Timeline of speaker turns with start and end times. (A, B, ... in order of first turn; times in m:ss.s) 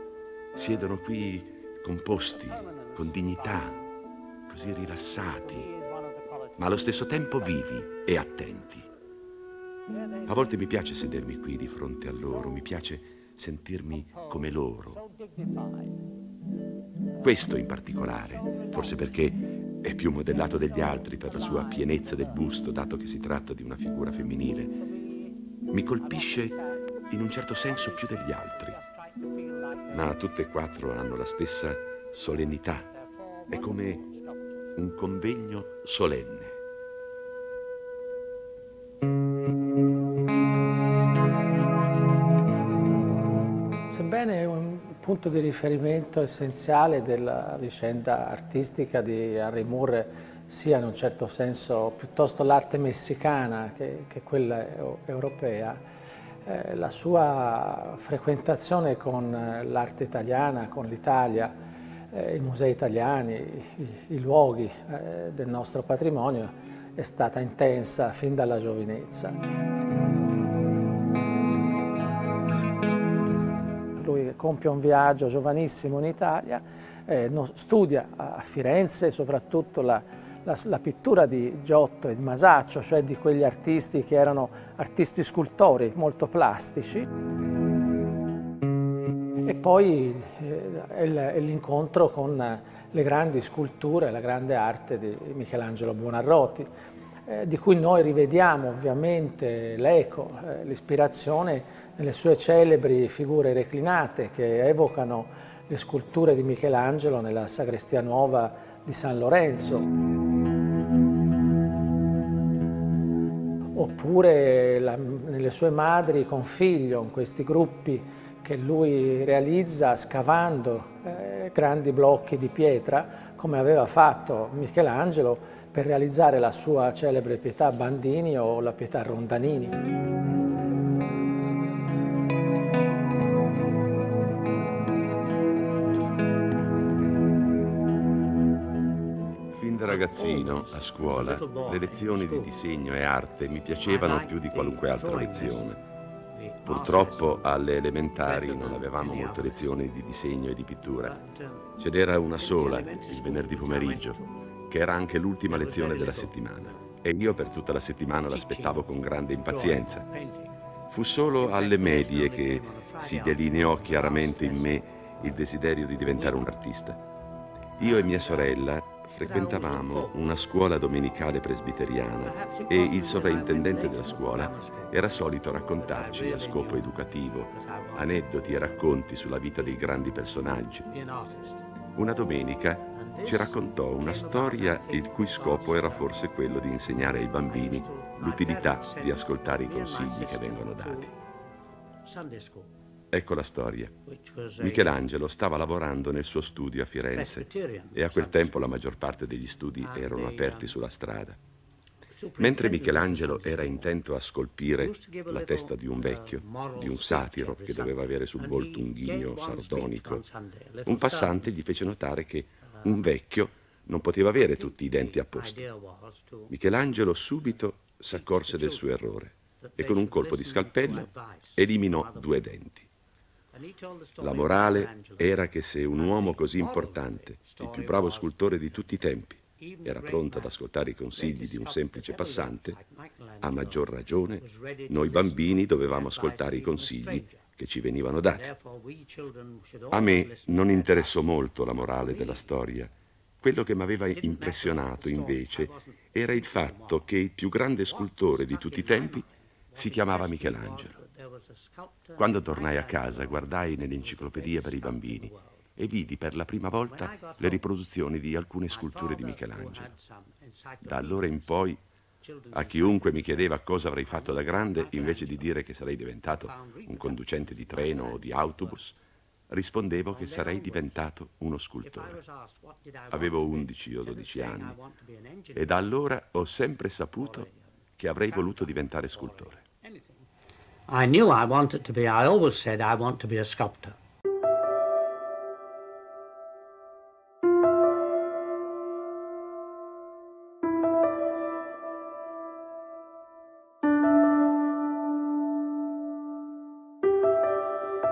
0:00.5-0:03.8 A
0:02.3-0:03.9 B
0:04.5-0:05.7 A
0:05.1-0:07.3 B
0:06.6-0:08.9 A
0:09.9-0:10.7 B
0:10.2-0:15.0 A
0:14.0-0:16.0 B
0:17.2-0:24.8 A
0:18.4-0:19.3 B
0:20.8-0:22.6 B
0:24.5-0:30.2 B
0:25.7-0:26.6 A
0:27.1-0:28.8 A
0:29.9-0:32.9 A
0:32.9-0:34.7 B
0:33.5-0:34.0 A
0:34.8-0:36.6 A
0:43.9-0:55.8 C
0:56.4-1:01.6 C
1:02.1-1:09.4 C
1:14.0-1:27.0 C
1:29.4-1:36.7 C
1:37.3-1:49.9 C
1:53.7-2:09.7 C
2:19.5-2:25.8 A
2:19.9-2:22.5 B
2:23.8-2:25.8 B
2:26.3-2:27.5 B
2:26.6-2:31.1 A
2:28.2-2:29.6 B
2:31.0-2:31.8 B
2:31.8-2:40.0 A
2:32.4-2:34.4 B
2:35.5-2:37.0 B
2:38.3-2:38.9 B
2:39.4-2:40.5 B
2:40.9-2:47.0 A
2:41.4-2:45.4 B
2:46.1-2:46.5 B
2:47.8-2:48.6 B
2:47.8-3:00.9 A
2:49.2-2:50.2 B
2:52.2-2:55.2 B
2:55.8-2:56.9 B
2:57.5-2:58.9 B
3:00.9-3:01.6 B
3:01.9-3:11.1 A
3:02.9-3:06.3 B
3:07.5-3:11.1 B
3:12.0-3:12.7 B
3:13.1-3:13.9 A
3:14.0-3:15.0 B
3:14.6-3:21.4 A
3:17.1-3:18.7 B
3:19.8-3:20.7 B
3:22.2-3:24.0 B
3:22.4-3:30.2 A
3:24.8-3:31.5 B
3:30.8-3:35.6 A
3:32.7-3:33.0 B
3:34.8-3:36.5 B
3:36.5-3:42.9 A
3:38.1-3:38.9 B
3:39.6-3:42.4 B
3:43.5-3:48.8 B
3:44.2-3:52.8 A
3:49.6-3:50.6 B
3:51.1-3:57.4 B
3:53.4-3:58.5 A
3:58.3-4:01.2 B
3:59.9-4:02.9 A
4:01.9-4:02.5 B
4:03.4-4:11.0 A
4:04.1-4:07.1 B
4:07.8-4:15.6 B
4:12.2-4:19.9 A
4:16.8-4:17.8 B
4:18.7-4:21.6 B
4:20.8-4:21.8 A
4:22.2-4:23.5 B
4:22.5-4:29.0 A
4:24.0-4:25.6 B
4:26.4-4:28.8 B
4:29.5-4:32.2 A
4:30.0-4:31.0 B
4:31.8-4:35.9 B
4:33.1-4:34.8 A
4:35.5-4:39.6 A
4:37.2-4:40.3 B
4:40.9-4:44.0 B